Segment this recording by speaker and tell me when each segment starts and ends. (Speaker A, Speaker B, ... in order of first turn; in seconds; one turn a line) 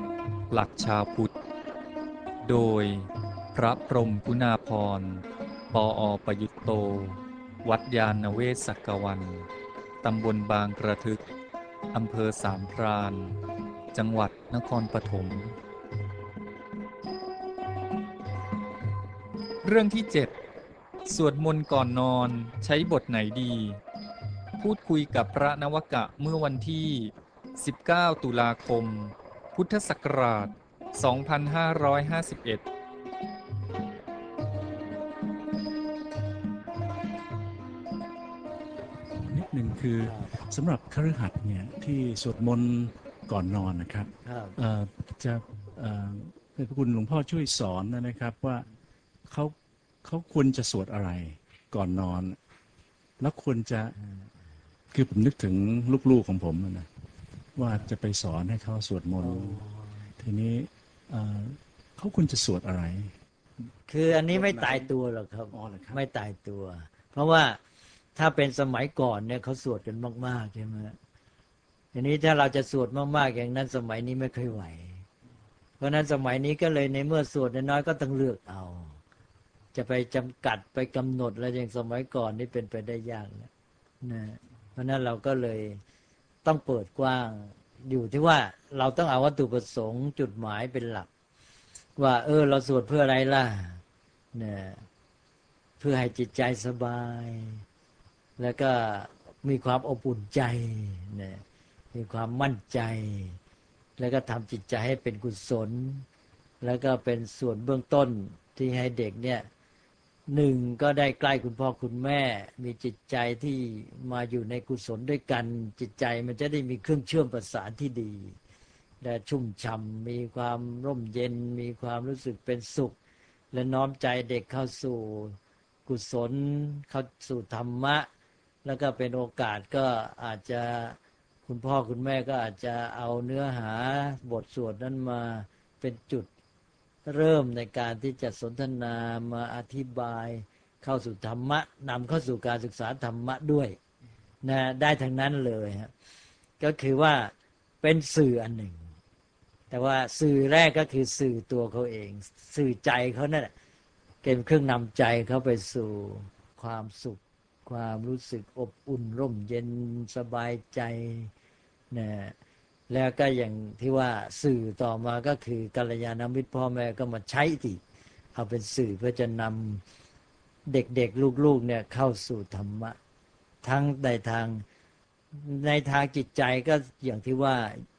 Speaker A: 0.5-1.3
Speaker A: 2.4-9.5
Speaker A: 10.0-11.2
Speaker A: 11.9-13.4
Speaker A: 13.9-15.6
Speaker A: 19.6-20.3
Speaker A: 21.0-23.8
Speaker A: 24.6-32.6
Speaker B: 39.2-48.6
Speaker C: 40.1-40.3
Speaker C: 44.2-44.6
Speaker B: 49.3-52.4
Speaker B: 53.2-53.9
Speaker B: 54.9-56.9
Speaker B: 57.5-59.6
Speaker C: 59.2-60.1
Speaker B: 60.2-63.1
Speaker C: 63.9-67.6
Speaker B: 64.3-64.9
Speaker B: 65.5-66.0
Speaker C: 68.2-71.0
Speaker C: 71.9-75.0
Speaker C: 75.8-79.0
Speaker C: 79.7-83.5
Speaker C: 84.0-85.8
Speaker C: 86.4-91.1
Speaker C: 92.0-93.8
Speaker C: 94.3-94.8
Speaker C: 95.8-97.6
Speaker C: 98.4-103.4
Speaker C: 104.0-106.0
Speaker C: 106.6-109.5
Speaker C: 110.3-118.3
Speaker C: 119.0-123.0
Speaker C: 123.5-128.1
Speaker C: 128.6-136.3
Speaker C: 137.1-143.8
Speaker C: 144.4-145.9
Speaker C: 146.6-148.8
Speaker C: 149.7-153.5
Speaker C: 154.2-161.3
Speaker C: 161.9-162.3
Speaker C: 162.9-167.8
Speaker C: 168.3-169.8
Speaker C: 170.7-173.0
Speaker C: 173.6-174.6
Speaker C: 175.3-177.8